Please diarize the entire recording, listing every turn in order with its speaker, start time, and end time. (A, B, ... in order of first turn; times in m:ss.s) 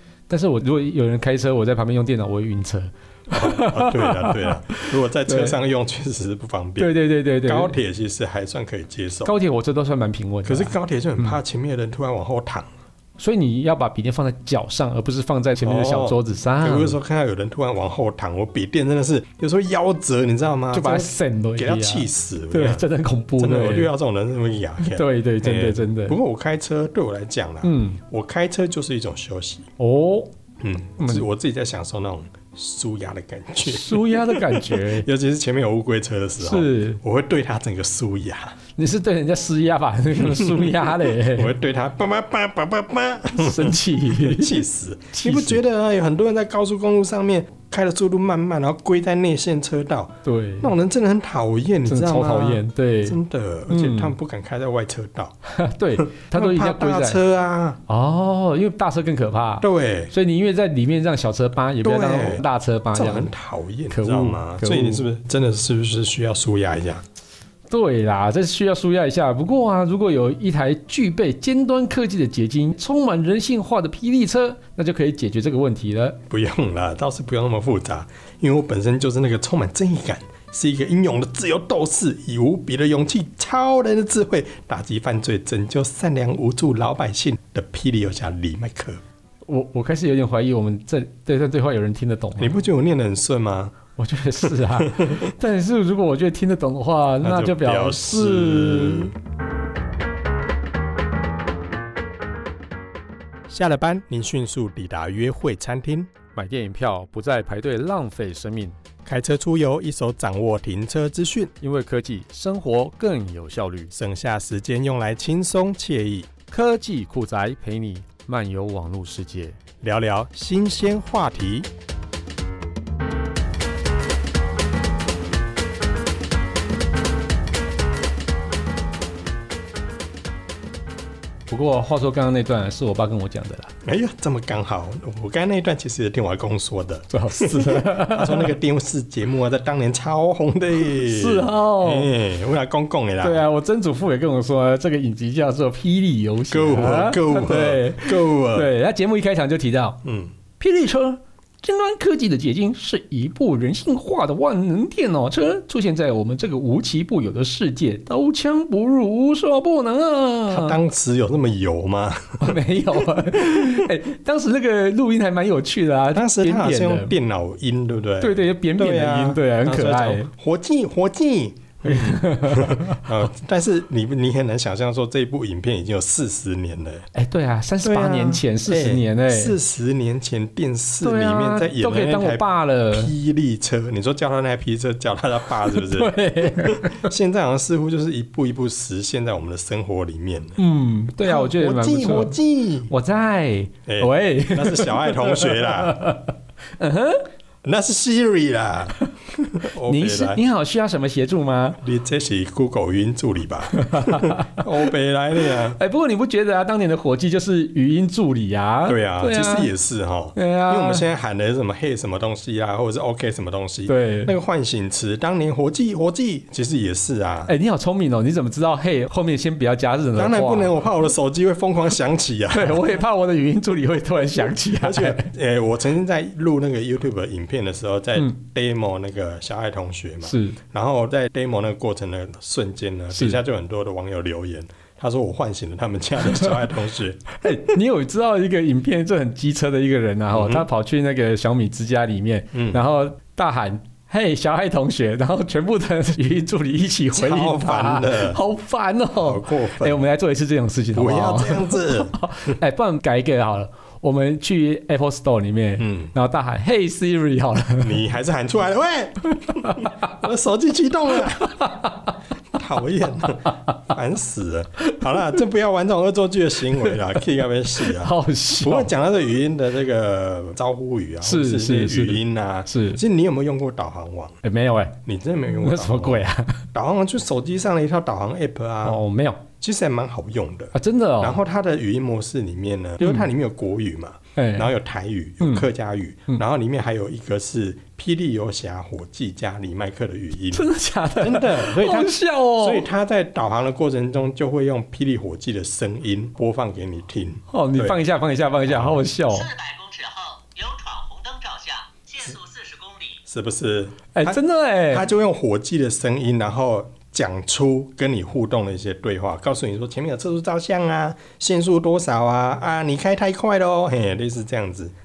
0:00.3-0:05.6 A
0:03.3-0:06.9 B
0:06.8-0:07.8 A
0:07.4-0:09.3 B
0:09.2-0:11.4 A
0:10.4-0:12.7 B
0:13.2-0:17.0 A
0:15.6-0:22.9 B
0:20.7-0:23.9 A
0:23.4-0:29.7 B
0:24.8-0:26.2 A
0:27.6-0:28.0 A
0:29.8-0:30.3 A
0:30.6-0:38.6 B
0:31.0-0:31.3 A
0:33.6-0:35.1 A
0:36.4-0:37.0 A
0:38.8-0:41.5 A
0:40.2-0:55.4 B
0:43.4-0:44.6 A
0:45.1-0:45.6 A
0:50.2-0:50.7 A
0:51.9-0:54.2 A
0:55.5-0:57.2 A
0:56.0-0:57.8 B
0:57.9-1:03.3 A
0:59.6-1:00.1 B
1:01.8-1:07.0 B
1:03.9-1:05.0 A
1:07.7-1:16.2 A
1:16.3-1:29.0 B
1:29.5-1:32.6 A
1:32.4-1:33.8 B
1:34.0-1:39.1 A
1:34.7-1:35.3 B
1:37.2-1:39.1 B
1:43.5-1:46.1 B
1:46.3-1:48.8 A
1:49.1-1:51.5 B
1:51.6-1:53.9 A
1:53.9-1:56.3 B
1:56.5-1:59.6 A
1:59.8-2:01.7 B
2:11.5-2:13.7 A
2:13.8-2:23.5 B
2:17.1-2:18.5 A
2:21.0-2:22.1 A
2:23.2-2:30.0 A
2:26.5-2:28.7 B
2:30.0-2:30.3 B
2:30.6-2:40.8 A
2:40.5-2:42.6 B
2:42.4-2:47.2 A
2:43.1-2:43.9 B
2:46.1-2:57.1 B
2:48.2-2:50.3 A
2:51.8-2:53.1 A
2:57.1-2:59.6 A
2:57.8-3:10.6 B
3:01.0-3:03.1 A
3:05.7-3:07.1 A
3:10.6-3:12.4 A
3:11.2-3:12.9 B
3:12.9-3:17.2 A
3:13.9-3:16.0 B
3:17.6-3:20.4 B
3:19.8-3:21.8 A
3:21.8-3:25.8 B
3:23.7-3:24.7 A
3:25.7-3:29.7 A
3:28.9-3:37.5 B
3:30.4-3:31.1 A
3:33.9-3:34.3 A
3:37.5-3:40.8 A
3:40.2-3:42.8 B
3:42.5-3:45.3 A
3:44.6-3:57.7 B
3:50.2-3:50.6 A
3:57.4-4:18.0 A
4:00.3-4:00.7 B
4:02.5-4:02.8 B
4:07.1-4:08.4 B
4:09.2-4:10.0 B
4:11.0-4:12.2 B
4:15.8-4:16.1 B
4:17.8-4:21.8 B
4:19.6-4:19.9 A
4:21.5-4:22.0 A
4:22.5-4:34.4 B
4:27.8-4:28.9 A
4:31.2-4:33.0 A
4:34.4-4:35.0 A
4:35.0-4:39.0 B
4:35.5-4:36.7 A
4:38.8-4:39.4 A
4:39.6-4:50.7 B
4:40.7-4:41.4 A
4:44.4-4:44.7 A
4:45.4-4:45.7 A
4:50.5-4:52.9 A
4:51.2-4:58.0 B
4:57.5-4:59.5 A
4:58.7-4:59.0 B
4:59.3-5:03.2 C
5:03.3-5:14.9 B
5:04.2-5:05.1 A